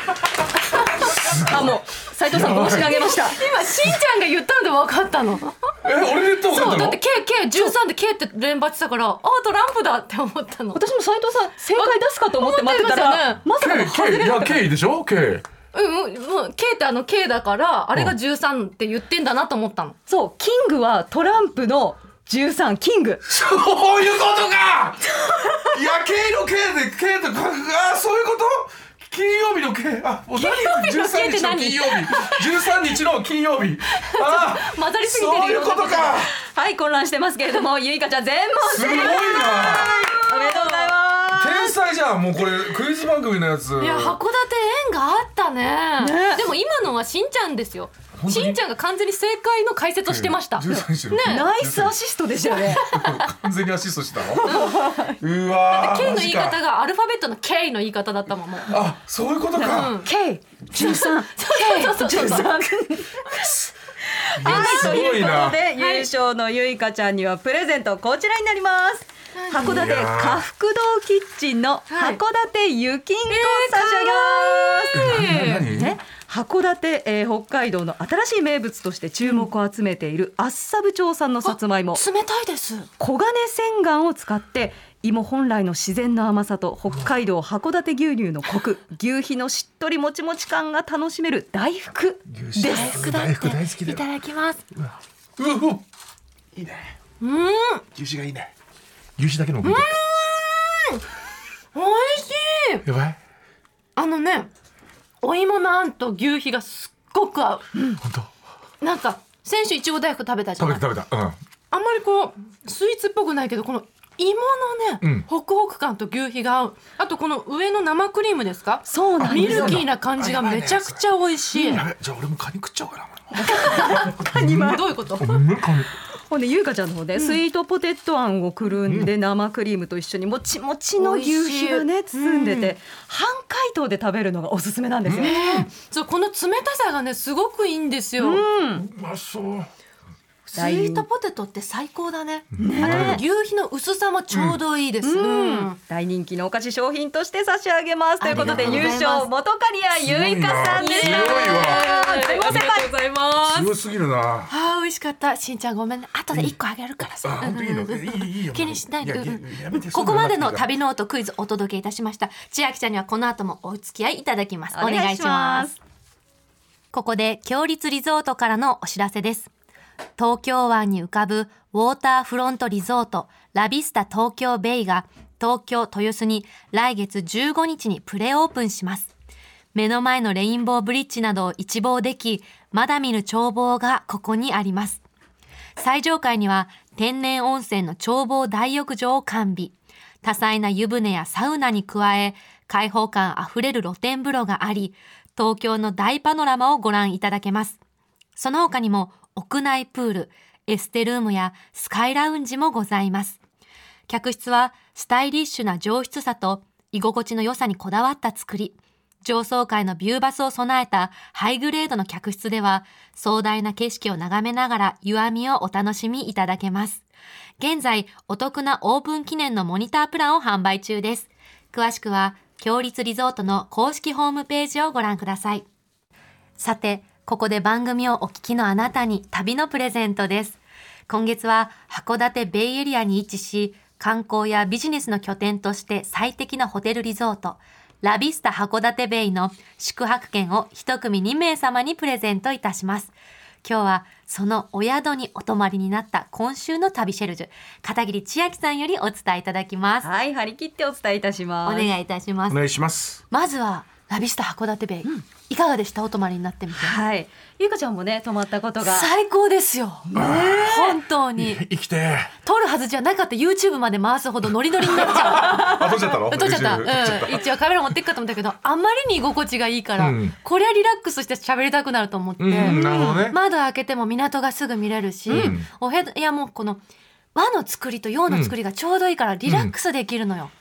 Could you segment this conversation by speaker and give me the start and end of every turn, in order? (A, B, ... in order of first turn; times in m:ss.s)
0:01.2-0:01.8 A
0:01.3-0:03.4 B
0:02.3-0:03.0 A
0:02.8-0:05.7 C
0:05.8-0:07.0 A
0:06.5-0:10.8 C
0:10.7-0:14.6 B
0:11.7-0:13.4 C
0:13.6-0:15.4 A
0:15.7-0:20.0 C
0:20.1-0:23.2 B
0:23.3-0:36.3 A
0:30.4-0:32.6 C
0:34.0-0:36.3 C
0:36.4-0:41.7 B
0:38.7-0:40.0 A
0:38.8-0:41.0 C
0:41.4-0:44.2 A
0:43.8-0:51.5 C
0:46.0-0:46.4 B
0:48.2-0:48.6 A
0:50.1-0:52.0 A
0:50.7-0:52.9 B
0:52.6-0:53.3 C
0:52.7-0:56.6 A
0:54.4-0:55.2 B
0:54.4-0:55.0 C
0:55.7-0:58.8 C
0:58.7-1:00.0 A
0:59.6-1:22.0 B
0:59.6-1:00.1 C
1:00.7-1:03.2 C
1:04.4-1:05.6 A
1:04.4-1:06.1 C
1:09.4-1:09.9 C
1:09.6-1:10.4 A
1:11.9-1:12.2 C
1:13.3-1:15.7 C
1:14.9-1:16.0 A
1:21.4-1:22.9 C
1:23.0-1:33.3 B
1:32.3-1:34.1 A
1:32.6-1:34.6 C
1:34.8-1:35.8 A
1:36.6-1:37.0 A
1:37.2-1:37.8 C
1:38.0-1:38.5 A
1:39.2-1:40.0 A
1:39.6-1:41.0 C
1:41.7-1:42.8 C
1:42.8-1:43.2 A
1:44.0-1:44.5 C
1:45.2-1:47.7 C
1:48.0-1:48.3 A
1:48.8-1:50.8 C
1:50.6-1:51.4 A
1:51.7-2:01.8 C
1:58.9-1:59.8 B
1:59.2-2:01.0 A
2:01.5-2:05.9 A
2:03.3-2:04.8 B
2:03.5-2:05.5 C
2:06.3-2:15.7 B
2:11.0-2:12.7 C
2:15.0-2:15.7 A
2:15.2-2:18.4 C
2:18.2-2:18.9 B
2:18.8-2:19.7 A
2:20.4-2:25.8 C
2:20.6-2:21.1 B
2:22.6-2:23.2 A
2:22.6-2:23.2 B
2:24.3-2:24.6 A
2:25.0-2:33.4 B
2:28.2-2:29.3 C
2:28.3-2:29.0 A
2:30.0-2:31.8 A
2:30.8-2:33.7 C
2:33.4-2:34.5 A
2:34.5-2:45.3 C
2:37.2-2:40.7 A
2:41.1-2:42.9 D
2:44.6-2:45.7 D
2:44.7-2:45.8 B
2:46.9-2:49.5 D
2:50.2-2:59.1 D
2:59.7-3:05.0 D
3:05.8-3:17.8 D
3:18.4-3:23.4 D
3:24.1-3:37.0 D
3:37.6-3:45.7 D
3:46.6-4:10.1 D
4:10.0-4:11.9 B
4:11.6-4:12.6 D
4:12.5-4:13.2 A
4:13.3-4:17.0 C
4:16.7-4:19.1 B
4:18.8-4:21.6 C
4:20.1-4:21.0 B
4:20.2-4:20.8 A
4:21.4-4:22.3 A
4:22.4-4:36.8 C
4:24.8-4:27.4 A
4:30.0-4:30.3 A
4:32.4-4:33.4 A
4:32.6-4:33.2 B
4:35.3-4:35.6 B
4:35.3-4:35.7 A
4:37.4-4:40.5 C
4:38.3-4:38.5 A
4:39.5-4:39.7 A